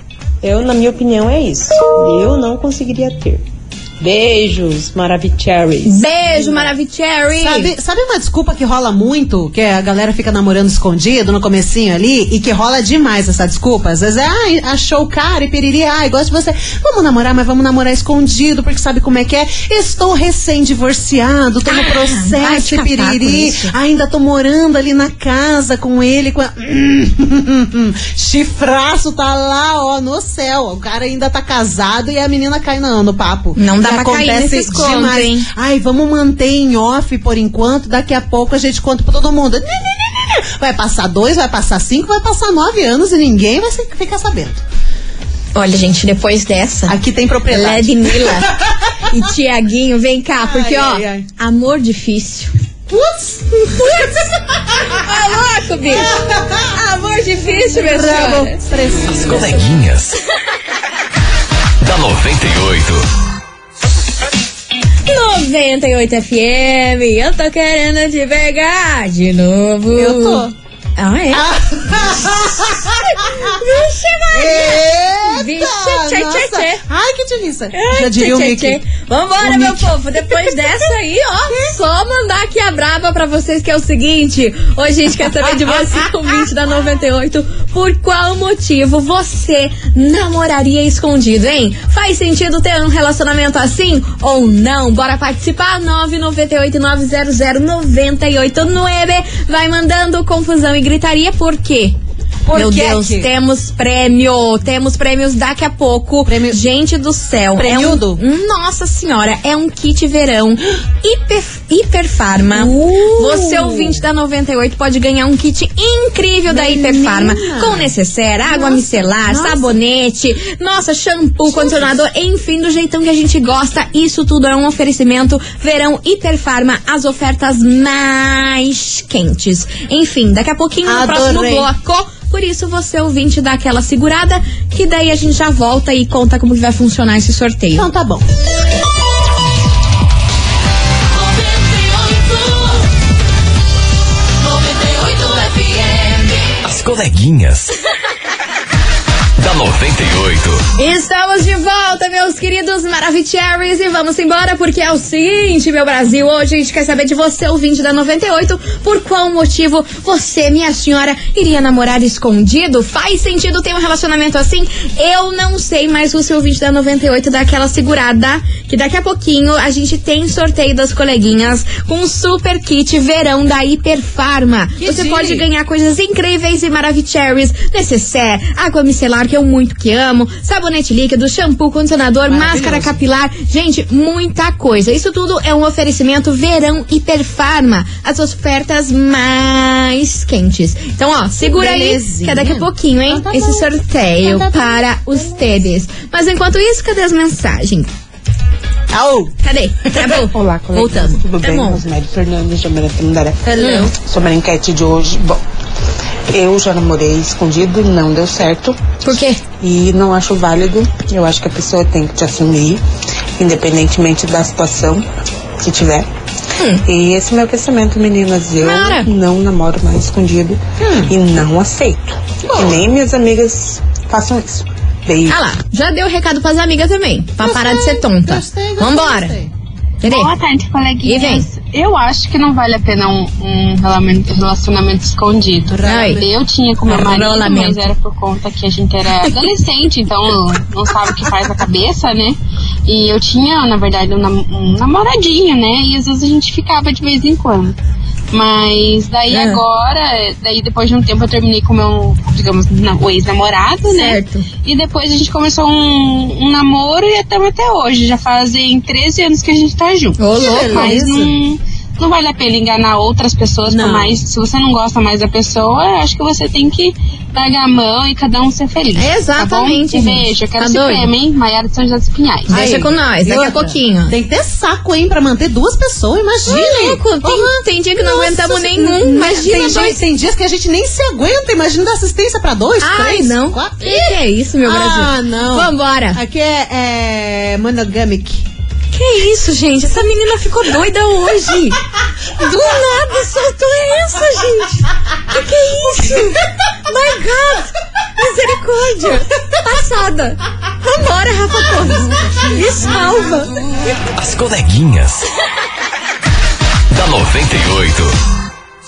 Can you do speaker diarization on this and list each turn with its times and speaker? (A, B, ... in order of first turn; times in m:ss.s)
0:00.4-0:03.4 A
0:04.0-0:06.7 A
0:05.8-0:07.7 B
0:07.4-0:44.6 C
0:21.7-0:23.7 B
0:33.6-0:35.5 B
0:45.5-0:47.0 B
0:46.9-0:48.7 C
0:47.5-0:48.5 B
0:49.1-0:52.5 B
0:50.4-0:51.3 C
0:52.9-0:54.0 C
0:53.7-0:54.2 B
0:54.9-0:56.2 B
0:55.9-0:56.7 C
0:56.7-0:58.7 B
0:57.5-0:59.6 C
0:59.1-1:00.2 D
1:01.8-1:03.0 D
1:05.1-1:10.4 B
1:09.9-1:10.5 C
1:11.0-1:11.4 B
1:11.3-1:13.6 C
1:12.9-1:16.8 B
1:14.3-1:18.8 C
1:17.7-1:42.0 B
1:19.4-1:20.8 C
1:42.4-1:43.3 C
1:42.5-2:17.9 B
1:46.2-1:46.6 C
1:47.6-1:48.2 C
1:52.5-1:54.0 C
1:56.5-1:57.9 C
1:58.5-1:59.7 C
2:01.4-2:02.0 C
2:10.8-2:11.7 C
2:17.7-2:18.2 C
2:26.6-2:27.7 D
2:29.4-2:30.7 D
2:30.8-3:17.9 B
2:54.8-2:55.4 C
3:02.3-3:03.0 C
3:11.4-3:13.7 C
3:14.2-3:15.2 C
3:18.9-3:19.3 C
3:19.4-3:21.8 B
3:20.3-3:25.4 E
3:23.4-3:23.9 C
3:23.6-3:23.9 B
3:26.3-3:28.8 E
3:29.0-3:29.4 B
3:29.6-3:32.8 E
3:33.4-3:35.0 E
3:35.6-3:36.1 E
3:36.6-3:36.8 B
3:36.8-3:45.4 E
3:38.6-3:39.1 B
3:40.8-3:41.1 C
3:45.3-3:49.3 B
3:47.4-3:49.5 C
3:50.0-3:50.3 B
3:50.0-4:07.7 F
3:51.0-3:51.5 B
3:55.7-3:56.3 C
3:55.8-3:56.2 B
3:56.9-3:57.9 B
4:08.3-4:32.6 F
4:09.3-4:09.6 B
4:13.9-4:14.4 B
4:20.2-4:21.0 B
4:20.3-4:21.3 C
4:23.7-4:24.1 C
4:29.0-4:31.1 B
4:32.5-4:34.1 B
4:32.5-4:48.4 C
4:36.4-4:40.0 B
4:42.8-4:46.2 B
4:48.9-4:51.8 B
4:52.4-5:03.6 B
5:04.1-5:05.3 D
5:06.9-5:08.2 D